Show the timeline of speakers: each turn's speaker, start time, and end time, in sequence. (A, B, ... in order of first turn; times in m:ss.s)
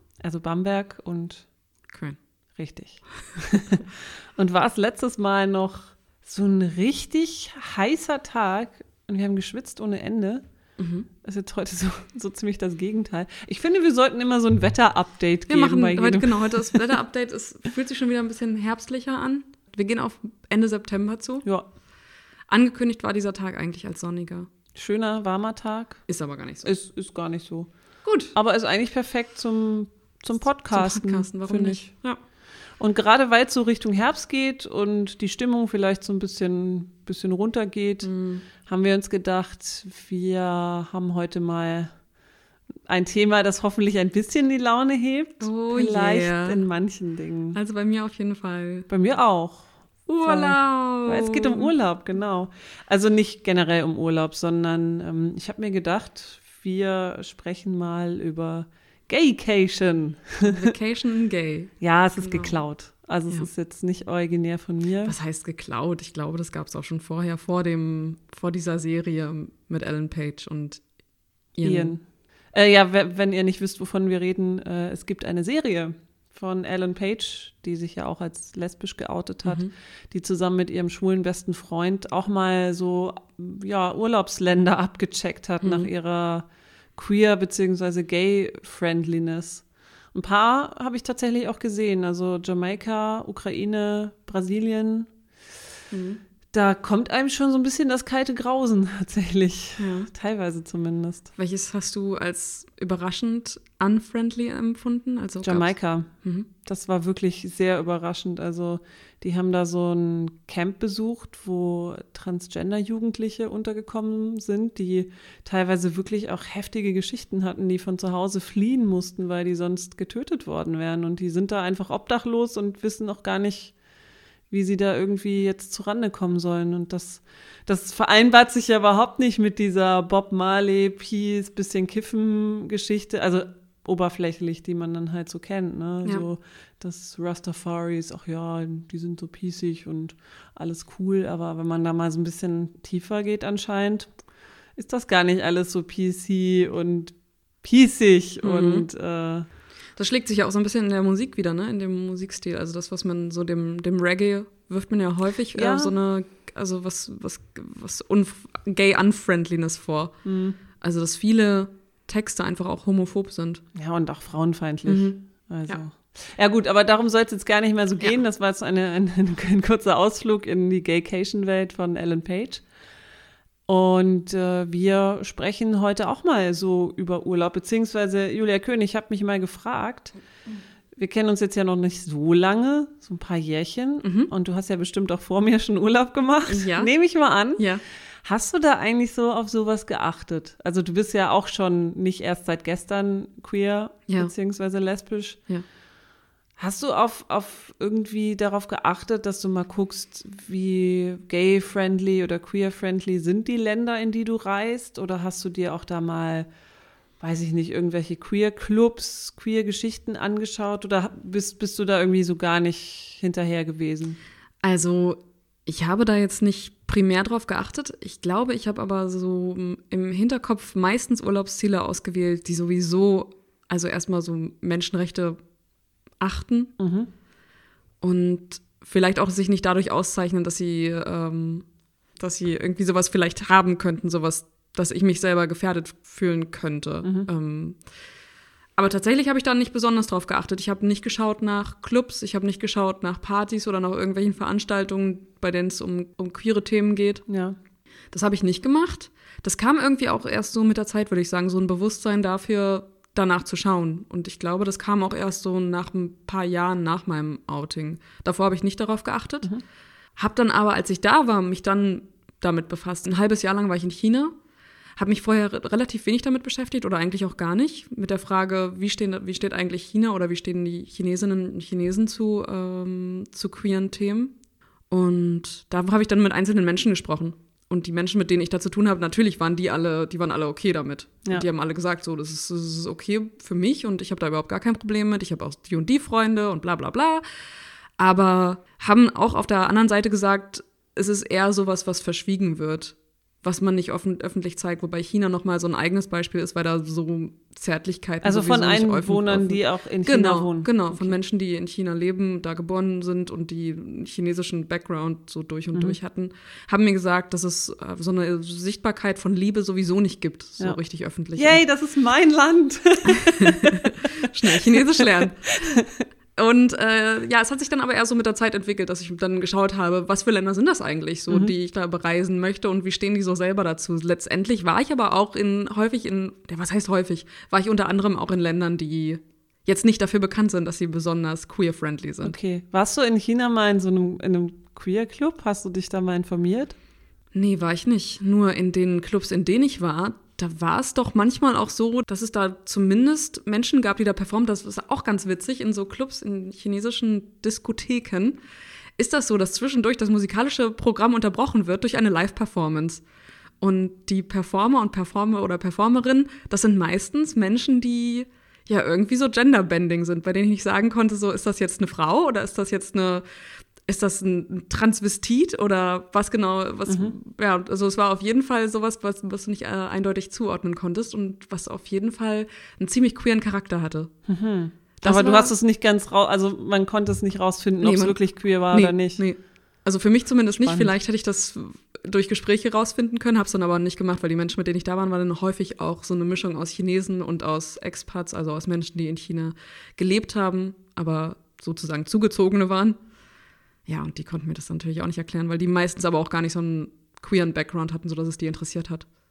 0:00.2-0:01.4 A
0:01.9-0:02.2 B
0:02.6-0:10.4 A
0:10.8-0:11.1 B
0:11.2-0:16.9 A
0:15.5-0:21.5 B
0:22.5-0:24.5 B
0:24.8-0:26.1 A
0:26.1-0:26.7 B
0:26.6-0:27.7 A
0:28.0-0:28.3 B
0:28.4-0:31.8 A
0:30.7-0:32.2 B
0:32.8-0:38.1 A
0:38.0-0:38.4 B
0:38.6-0:41.9 A
0:42.9-0:47.6 A
0:45.4-0:46.6 B
0:47.5-0:48.9 B
0:48.9-0:49.7 A
0:50.1-0:51.7 B
0:50.2-1:00.7 A
1:00.4-1:02.6 B
1:01.8-1:05.2 A
1:05.0-1:10.8 B
1:11.6-1:11.9 B
1:11.6-1:12.0 A
1:12.5-1:35.1 A
1:19.4-1:19.7 B
1:25.6-1:25.9 B
1:35.9-1:36.2 B
1:36.5-1:41.3 A
1:39.8-1:40.1 B
1:41.4-1:46.5 B
1:45.4-1:46.1 A
1:46.6-2:03.8 A
2:04.5-2:24.1 A
2:24.8-2:29.5 A
2:28.4-2:28.8 B
2:30.0-2:40.2 B
2:35.5-2:35.9 A
2:40.2-2:40.6 A
2:40.8-2:43.6 B
2:43.8-2:52.6 A
2:44.8-2:45.8 B
2:53.7-3:00.1 A
3:01.0-3:07.7 A
3:04.0-3:04.3 B
3:06.5-3:06.9 B
3:07.6-3:07.8 B
3:08.2-3:15.4 A
3:16.6-3:26.5 A
3:27.2-3:34.2 A
3:34.6-3:45.4 B
3:46.2-3:46.7 B
3:46.8-3:47.1 A
3:48.0-3:51.7 B
3:52.2-3:57.8 B
3:57.0-3:57.3 A
3:58.8-4:07.2 B
4:07.3-4:07.6 A
4:08.1-4:19.5 B
4:20.2-4:24.3 B
4:25.0-4:34.3 B
4:34.9-4:47.2 B
4:48.0-5:11.6 B
4:58.2-5:01.2 A
5:11.4-5:16.0 A
5:13.1-5:15.8 B
5:16.4-5:32.4 B
5:32.2-5:36.8 A
5:37.3-5:48.4 B
5:49.0-5:53.0 B
5:53.6-6:03.2 B
6:03.9-6:14.1 B
6:06.9-6:07.1 A
6:14.3-6:19.2 A
6:15.0-6:15.5 B
6:17.8-6:18.2 B
6:18.7-6:33.0 B
6:20.6-6:20.9 A
6:33.9-6:39.1 B